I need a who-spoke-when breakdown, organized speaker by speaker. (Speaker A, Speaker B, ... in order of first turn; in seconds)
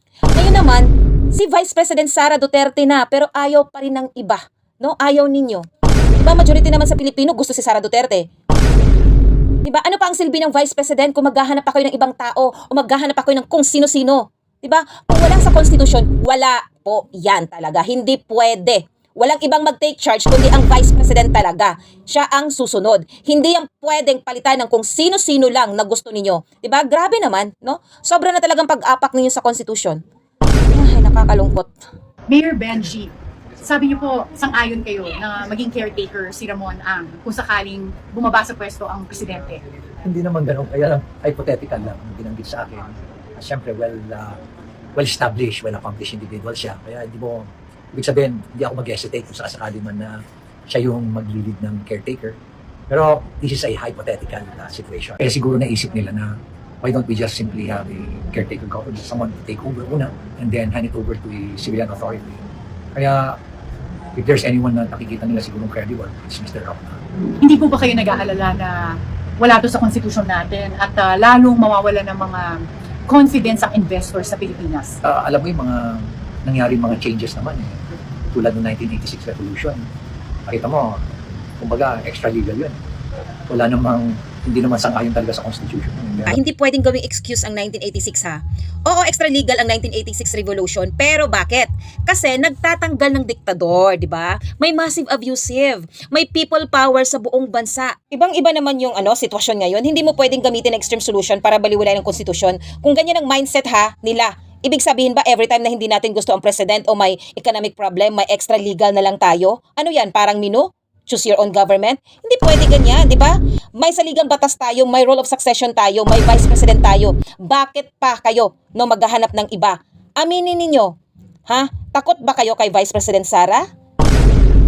Speaker A: 0.3-5.7, 6.2-8.3, 9.7-30.0, 30.7-31.7, 86.3-120.9, 121.5-123.7
Speaker B: 32.3-39.6, 67.4-72.5, 73.1-75.0
Speaker C: 40.0-44.4, 45.0-50.2, 50.7-52.4, 52.9-56.3, 56.8-62.4, 63.0-63.4, 64.2-67.0, 75.0-77.8, 78.3-79.8, 80.5-81.0, 81.6-82.8, 83.5-86.4